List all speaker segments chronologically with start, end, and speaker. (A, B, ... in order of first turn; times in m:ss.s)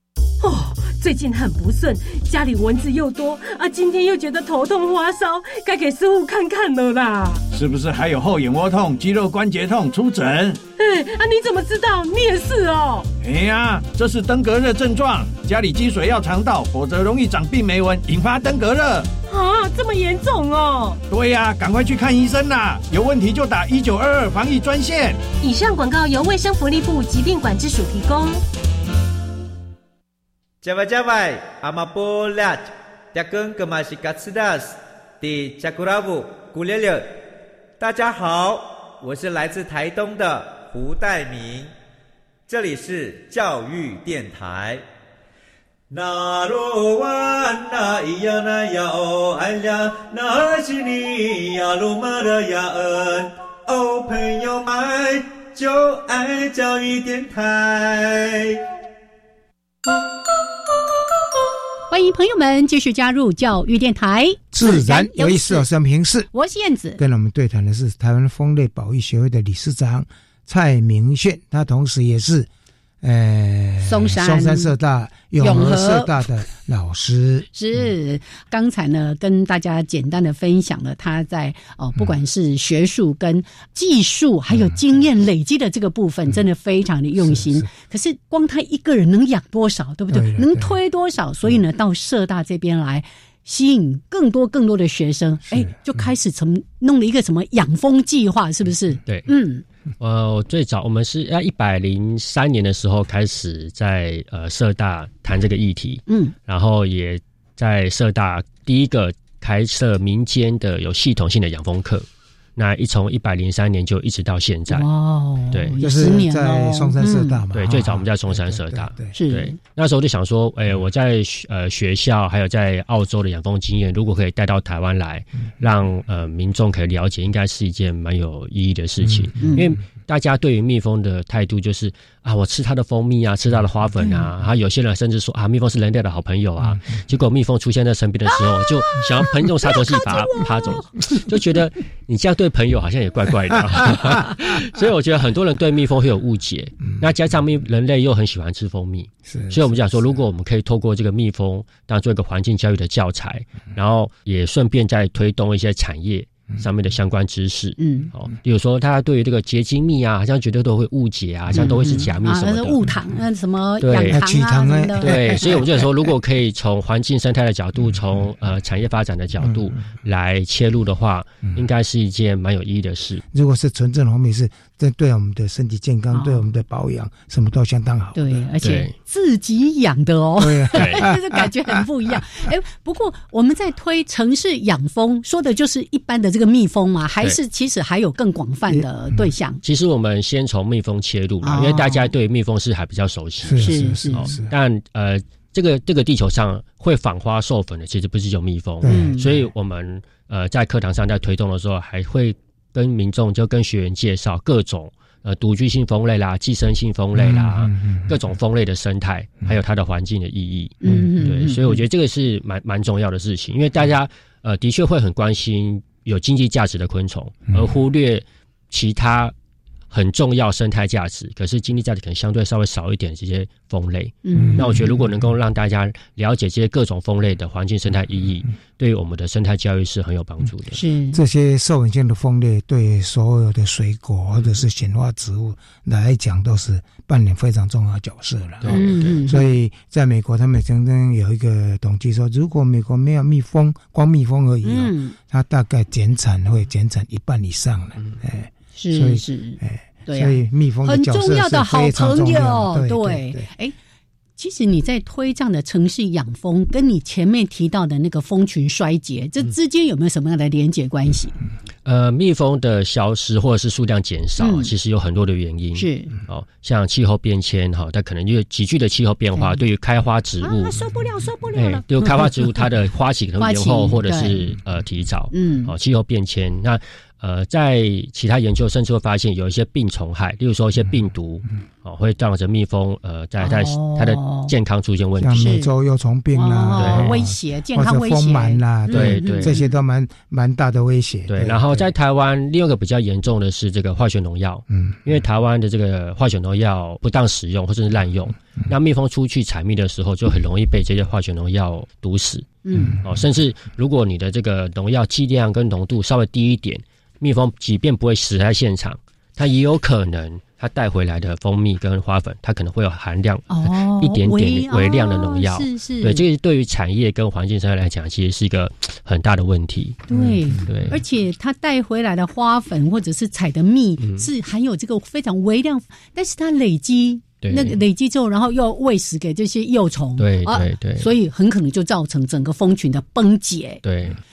0:00.4-0:07.4 A
0:07.5-0:10.6 B
0:10.8-0:13.1 A
0:13.2-0:19.1 B
0:19.3-0:21.0 A
0:21.1-0:25.2 B
0:25.4-0:28.4 A
0:30.6-0:37.2 C
0:37.8-0:41.7 C
0:42.5-0:44.8 C
0:45.9-0:58.6 C
1:01.9-1:05.6 D
1:04.5-1:06.3 E
1:06.3-1:07.0 D
1:07.0-1:12.5 E
1:13.0-1:17.5 E
1:13.8-1:14.7 D
1:15.4-1:16.2 D
1:17.5-1:39.6 D
1:24.5-1:24.8 E
1:27.2-1:27.7 E
1:30.1-1:30.8 E
1:35.5-1:35.8 E
1:40.0-1:52.0 F
1:46.1-1:46.3 D
1:52.6-1:54.9 F
1:54.7-1:57.4 D
1:55.5-1:56.1 F
1:55.8-1:59.2 E
1:57.5-2:42.8 F
1:59.1-1:59.6 D
2:09.4-2:09.7 D
2:19.9-2:20.8 D
2:29.3-2:30.1 E
2:37.8-2:38.1 D
2:41.5-2:45.6 D
2:43.8-2:44.2 F
2:44.1-2:45.9 E
2:45.0-2:53.2 F
2:49.4-2:49.8 E
2:53.3-2:58.4 E
2:56.1-2:56.4 D
2:58.1-3:09.6 D
2:58.6-2:58.9 F
3:00.4-3:01.5 E
3:00.7-3:01.1 F
3:09.6-3:39.3 F
3:11.4-3:12.1 D
3:13.4-3:14.5 E
3:13.6-3:14.3 D
3:18.8-3:19.3 E
3:18.8-3:19.2 D
3:27.2-3:28.1 E
3:30.8-3:31.8 D
3:39.9-3:50.8 F
3:44.2-3:44.8 D
3:44.4-3:44.9 E
3:50.7-3:51.2 D
3:51.1-4:13.5 E
3:58.6-3:59.2 F
3:58.7-3:59.5 D
4:04.6-4:05.2 D
4:08.8-4:13.7 D
4:14.4-4:21.4 D
4:21.8-4:30.8 F
4:24.4-4:24.7 D
4:25.7-4:26.1 D
4:29.3-4:29.6 D
4:30.4-4:32.6 D
4:31.5-4:45.6 F
4:33.4-4:34.4 D
4:35.3-4:35.7 D
4:43.4-4:44.5 D
4:45.2-4:51.9 E
4:45.3-4:45.7 D
4:46.3-4:49.7 D
4:46.8-4:47.2 F
4:48.9-4:49.6 F
4:51.3-5:21.0 F
5:02.6-5:03.0 D
5:13.5-5:16.2 D
5:20.1-5:33.8 D
5:24.0-5:24.3 F
5:27.4-5:27.8 F
5:30.2-5:31.1 F
5:33.8-5:34.2 F